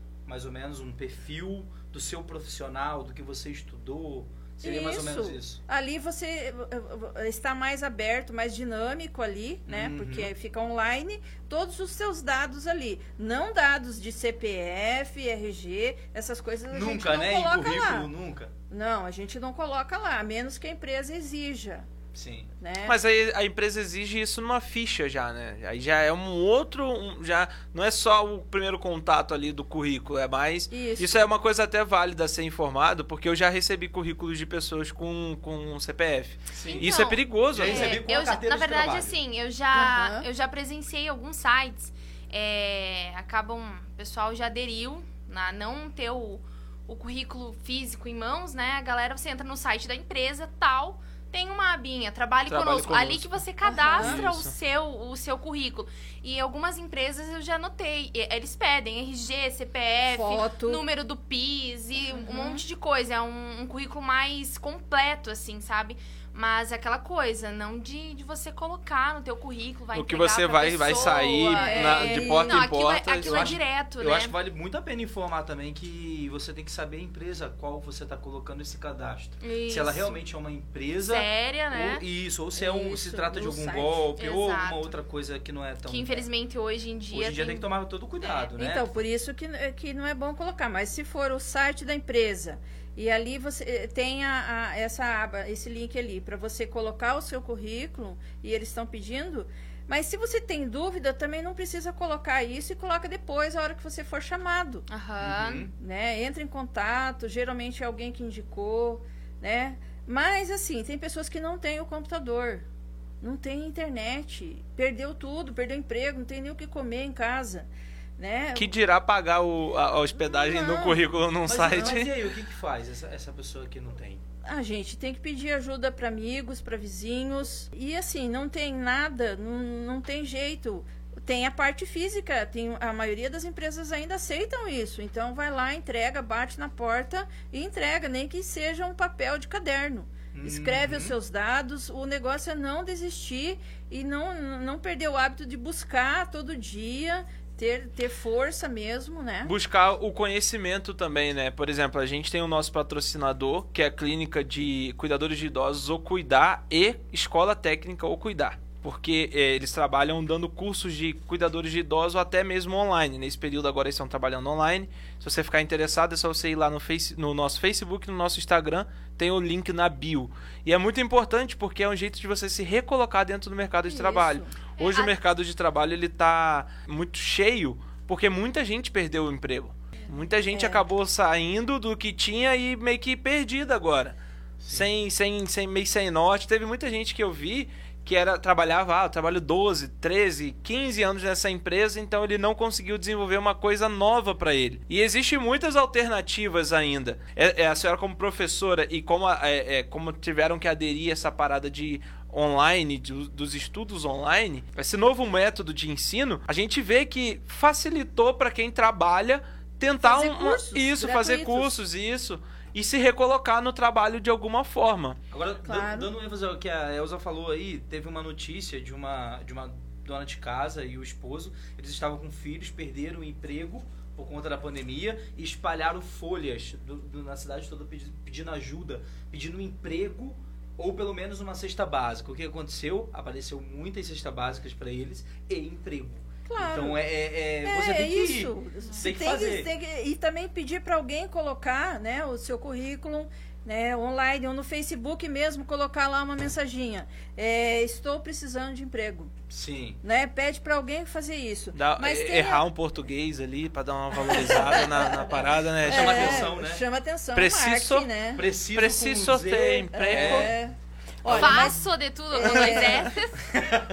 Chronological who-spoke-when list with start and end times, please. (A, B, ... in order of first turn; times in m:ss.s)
0:00.3-0:05.6 A
0:04.6-0:18.1 B
0:09.7-0:10.3 A
0:16.7-0:18.5 A
0:18.7-0:21.9 B
0:22.1-0:22.5 A
0:22.6-0:23.0 B
0:22.9-0:38.0 C
0:30.7-0:31.2 B
0:36.6-0:36.8 A
0:36.6-1:14.4 D
0:37.5-0:39.2 A
0:39.7-0:40.3 B
0:52.5-0:53.4 C
0:53.6-0:54.2 B
0:54.0-0:54.5 C
1:00.1-1:00.8 B
1:02.1-1:02.6 B
1:09.9-1:13.5 C
1:11.5-1:12.6 B
1:13.2-1:26.2 A
1:19.4-1:20.2 D
1:21.0-1:22.0 D
1:22.6-1:24.1 B
1:24.2-1:25.0 D
1:25.9-1:27.7 D
1:27.1-1:28.9 A
1:28.2-1:28.5 D
1:28.6-1:44.9 B
1:44.9-1:45.7 D
1:45.2-1:45.7 A
1:45.8-1:52.7 B
1:53.2-1:58.7 B
1:58.6-2:02.1 C
2:00.2-2:01.0 B
2:01.4-2:04.2 A
2:04.4-2:29.5 B
2:20.3-2:21.2 A
2:29.4-3:04.2 C
2:53.8-2:54.6 B
2:54.8-2:55.2 D
3:00.5-3:00.8 B
3:04.6-3:04.9 A
3:04.7-3:35.2 C
3:30.0-3:31.8 B
3:35.3-3:59.7 A
3:35.6-3:36.1 B
3:56.5-3:57.0 B
3:57.6-4:09.3 B
4:09.5-4:10.0 A
4:10.0-4:12.6 B
4:11.7-4:16.5 C
4:14.3-4:18.4 B
4:14.4-4:14.9 A
4:15.8-4:16.8 A
4:17.3-4:18.1 C
4:18.4-4:20.6 A
4:18.7-4:20.6 C
4:19.9-4:23.1 B
4:21.2-4:21.8 A
4:21.3-4:23.5 D
4:22.4-4:23.8 A